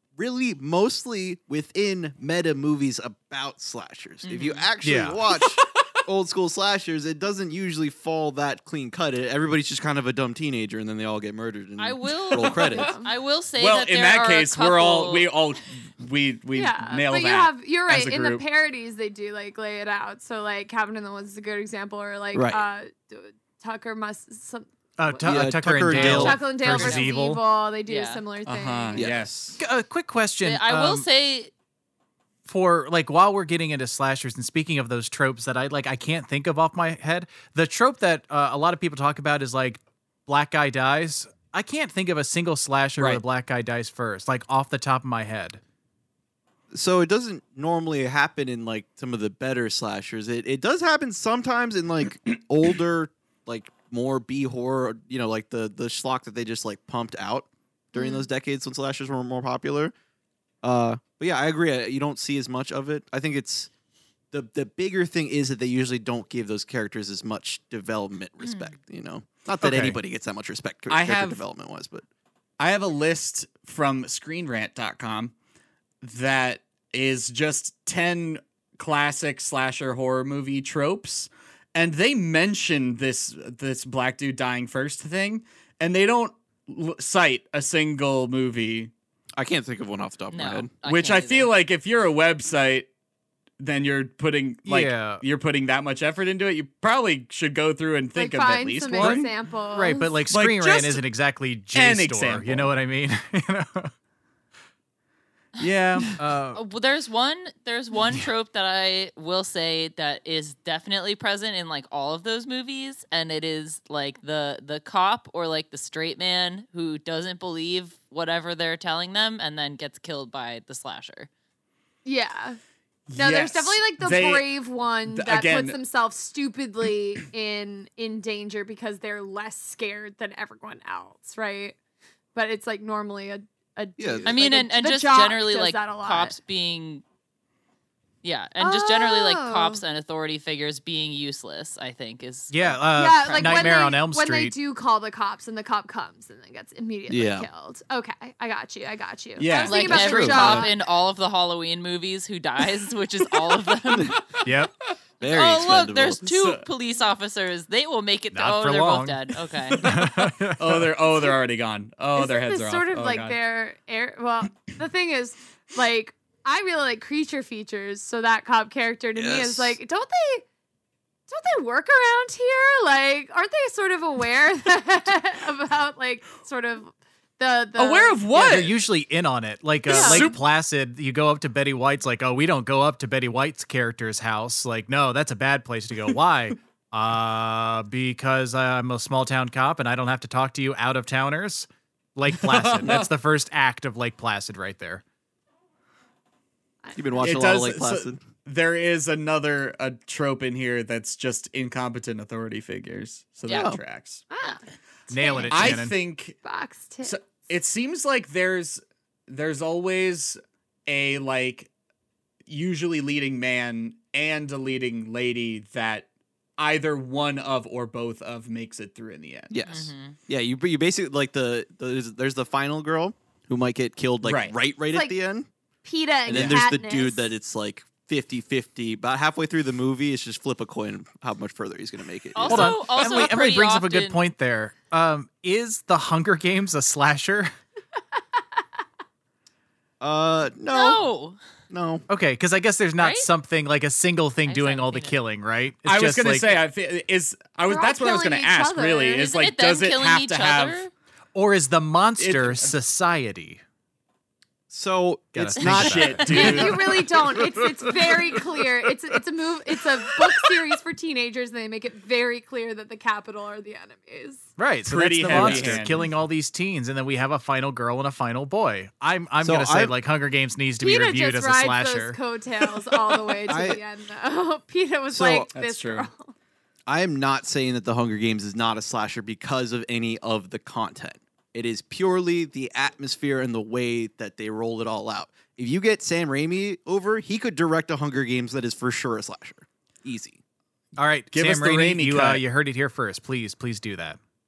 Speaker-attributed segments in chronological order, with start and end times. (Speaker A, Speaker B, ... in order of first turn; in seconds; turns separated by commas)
Speaker A: 0.2-12.9, Speaker B: 4.2-4.7, Speaker C: 4.8-5.2, Speaker D: 5.4-5.7, Speaker B: 11.8-15.3, Speaker E: 12.4-13.1, Speaker D: 13.6-18.4, Speaker E: 16.6-29.1, Speaker A: 22.3-22.6, Speaker C: 25.0-27.4, Speaker A: 25.2-26.6, Speaker B: 26.7-27.1, Speaker B: 27.9-28.2, Speaker D: 28.5-29.6, Speaker A: 29.0-29.3, Speaker C: 29.6-31.1, Speaker B: 30.4-31.5, Speaker C: 32.5-45.6, Speaker A: 46.7-59.9, Speaker E: 58.0-58.2, Speaker A: 60.6-63.7, Speaker A: 64.3-72.0, Speaker B: 68.4-68.7, Speaker C: 69.6-70.0, Speaker D: 70.9-71.4, Speaker D: 72.6-75.3, Speaker D: 76.0-88.9, Speaker A: 89.4-90.7, Speaker B: 90.3-91.5, Speaker D: 90.8-92.9, Speaker D: 93.6-99.3, Speaker C: 94.7-95.2, Speaker E: 98.2-100.1, Speaker C: 99.0-103.9, Speaker D: 100.3-101.0, Speaker D: 101.7-102.7, Speaker D: 105.6-106.2, Speaker C: 106.2-106.6, Speaker B: 106.5-121.3, Speaker E: 122.0-122.6, Speaker D: 123.1-124.5, Speaker E: 123.2-131.8, Speaker D: 125.1-125.8, Speaker E: 132.3-136.4, Speaker A: 134.0-134.4, Speaker B: 134.2-137.0, Speaker B: 138.2-142.8, Speaker E: 138.6-139.8, Speaker C: 142.5-144.5, Speaker E: 142.9-150.8, Speaker B: 143.3-143.7, Speaker A: 147.1-147.5, Speaker D: 149.4-150.0, Speaker B: 149.6-154.2, Speaker A: 149.9-150.7, Speaker D: 154.2-154.9, Speaker C: 154.4-154.7, Speaker A: 155.2-156.2, Speaker B: 155.2-159.9, Speaker D: 156.2-156.7, Speaker C: 158.3-160.9, Speaker D: 159.7-163.4, Speaker E: 162.2-170.5, Speaker A: 169.2-169.8, Speaker E: 171.3-178.2, Speaker D: 177.8-178.8, Speaker C: 178.3-195.0, Speaker D: 179.9-180.4, Speaker E: 179.9-180.3, Speaker D: 192.3-193.1, Speaker E: 196.8-197.3, Speaker A: 196.9-198.2, Speaker D: 197.2-204.2, Speaker B: 203.5-203.7, Speaker A: 203.5-203.8, Speaker E: 204.3-207.2, Speaker C: 205.1-205.9, Speaker D: 205.5-206.4, Speaker D: 207.0-211.7, Speaker D: 212.5-216.1, Speaker D: 216.6-219.5, Speaker A: 219.5-225.5, Speaker B: 219.6-220.2, Speaker D: 224.2-224.6, Speaker E: 224.9-225.2, Speaker E: 225.8-227.3, Speaker A: 226.3-233.0, Speaker D: 226.3-226.6, Speaker B: 232.3-234.2, Speaker C: 232.4-237.5, Speaker A: 240.0-241.1, Speaker B: 240.7-241.4, Speaker A: 241.7-242.1, Speaker C: 242.1-246.6, Speaker B: 243.0-243.3, Speaker B: 244.5-245.2, Speaker D: 245.9-250.8, Speaker E: 247.7-249.3, Speaker B: 249.2-250.9, Speaker C: 251.3-253.6, Speaker D: 252.2-252.8, Speaker A: 254.7-256.8, Speaker C: 255.3-258.4, Speaker B: 255.6-256.6, Speaker D: 255.8-256.8, Speaker E: 256.3-264.4, Speaker C: 264.6-272.2, Speaker D: 264.9-266.1, Speaker A: 265.3-265.9, Speaker A: 269.4-269.9, Speaker E: 270.8-276.3, Speaker A: 273.5-273.8, Speaker A: 275.1-275.5, Speaker D: 275.5-276.1, Speaker A: 276.9-290.4, Speaker C: 291.0-294.2, Speaker D: 291.3-292.4